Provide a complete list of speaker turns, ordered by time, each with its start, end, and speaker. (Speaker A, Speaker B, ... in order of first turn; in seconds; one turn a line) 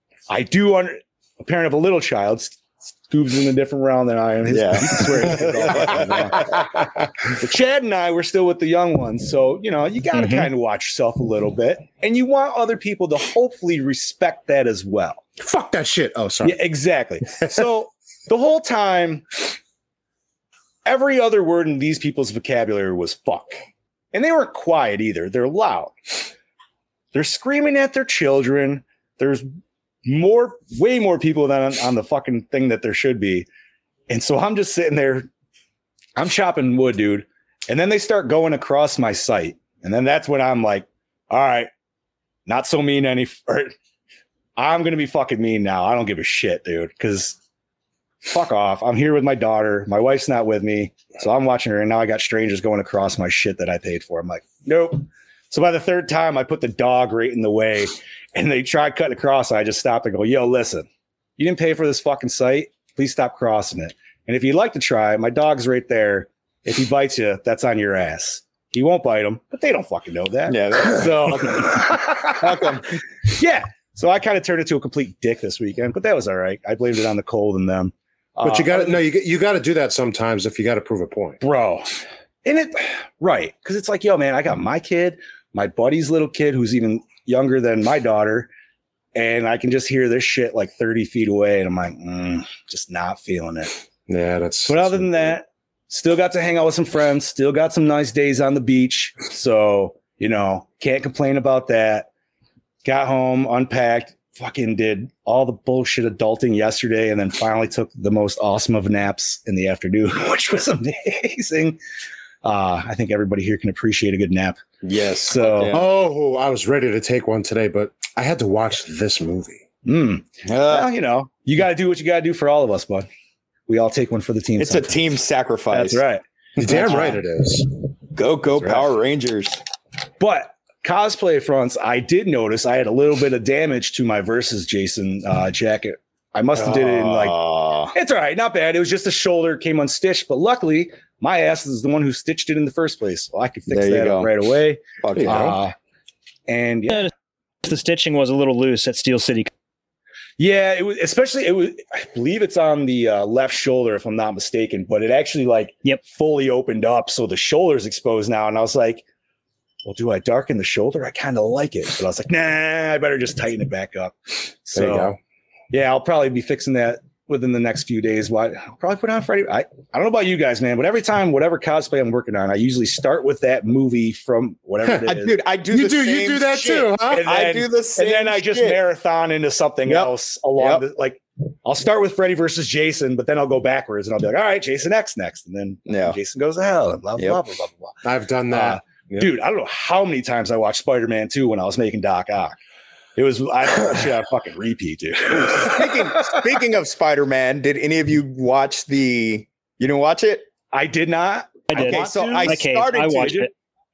Speaker A: 0.3-6.7
Speaker B: 4.5-6.6
Speaker C: 6.0-7.1
Speaker A: 7.3-15.2
Speaker D: 10.2-10.5
Speaker C: 15.4-16.6
Speaker A: 16.4-19.5
Speaker C: 17.4-17.7
Speaker A: 20.9-23.6
Speaker A: 24.1-26.1
Speaker A: 27.1-29.5
Speaker A: 30.1-33.5
Speaker A: 34.1-35.3
Speaker A: 36.2-41.7
Speaker A: 42.5-43.7
Speaker A: 44.6-47.4
Speaker A: 48.2-60.9
Speaker A: 61.4-72.7
Speaker B: 70.5-73.0
Speaker A: 73.2-79.0
Speaker C: 78.4-81.4
Speaker A: 81.4-88.5
Speaker A: 89.2-93.7
Speaker C: 94.1-95.4
Speaker A: 94.7-102.1
Speaker A: 102.8-111.8
Speaker A: 112.4-114.6
Speaker B: 114.8-115.8
Speaker A: 115.3-115.7
Speaker C: 115.7-119.6
Speaker A: 119.8-123.1
Speaker B: 120.5-120.9
Speaker A: 123.7-125.0
Speaker B: 124.6-126.0
Speaker A: 125.7-127.2
Speaker C: 126.6-127.7
Speaker B: 128.1-129.6
Speaker A: 128.6-128.9
Speaker A: 130.2-137.4
Speaker B: 136.6-137.9
Speaker A: 137.9-145.7
Speaker B: 143.7-144.3
Speaker B: 145.0-145.6
Speaker C: 145.2-145.5
Speaker A: 146.5-147.1
Speaker D: 147.6-149.5
Speaker A: 150.4-159.0
Speaker A: 159.8-165.1
Speaker C: 164.8-165.2
Speaker A: 165.7-175.4
Speaker B: 175.1-178.8
Speaker C: 175.7-177.3
Speaker A: 177.1-187.9
Speaker B: 179.9-180.8
Speaker B: 185.9-186.2
Speaker C: 188.0-189.3
Speaker A: 188.5-192.6
Speaker A: 193.2-196.4
Speaker B: 195.3-200.5
Speaker A: 200.7-203.4
Speaker D: 201.7-203.5
Speaker B: 201.8-203.5